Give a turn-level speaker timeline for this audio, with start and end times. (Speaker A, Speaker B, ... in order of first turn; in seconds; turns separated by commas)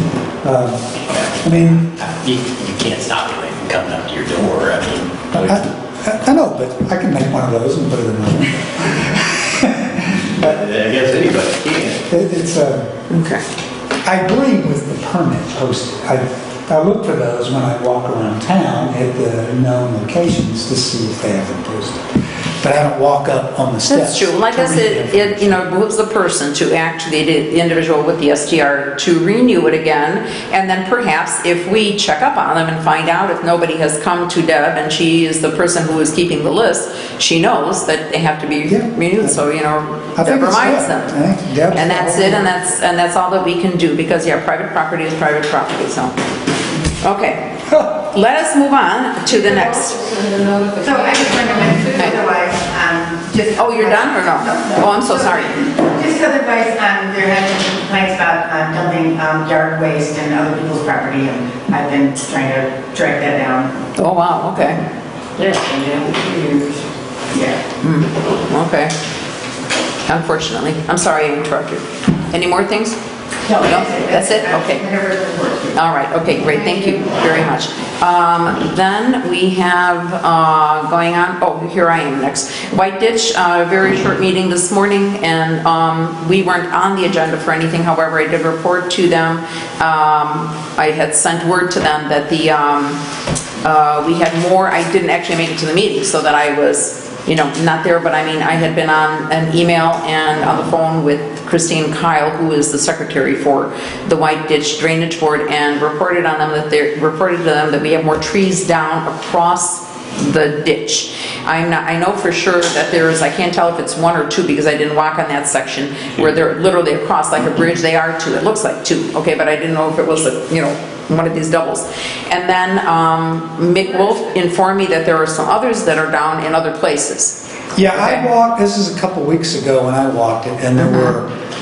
Speaker A: 0.4-2.0, Speaker B: 2.0-5.6, Speaker A: 5.3-10.6, Speaker B: 10.4-12.0, Speaker A: 12.1-12.9, Speaker C: 13.1-13.4, Speaker A: 14.0-22.0, Speaker A: 22.6-25.6, Speaker C: 23.9-41.1, Speaker A: 38.7-39.4, Speaker A: 40.1-42.5, Speaker C: 41.7-46.1, Speaker C: 47.0-47.4, Speaker A: 47.7-47.9, Speaker C: 48.0-50.1, Speaker D: 49.6-51.9, Speaker E: 50.8-63.7, Speaker C: 53.6-55.6, Speaker C: 64.0-64.8, Speaker D: 65.4-66.8, Speaker E: 67.3-67.6, Speaker C: 67.8-68.9, Speaker C: 70.1-73.0, Speaker E: 73.5-75.8, Speaker C: 73.6-74.8, Speaker C: 75.8-93.0, Speaker C: 93.6-127.4, Speaker A: 127.8-131.3, Speaker C: 127.9-128.2, Speaker C: 130.8-131.2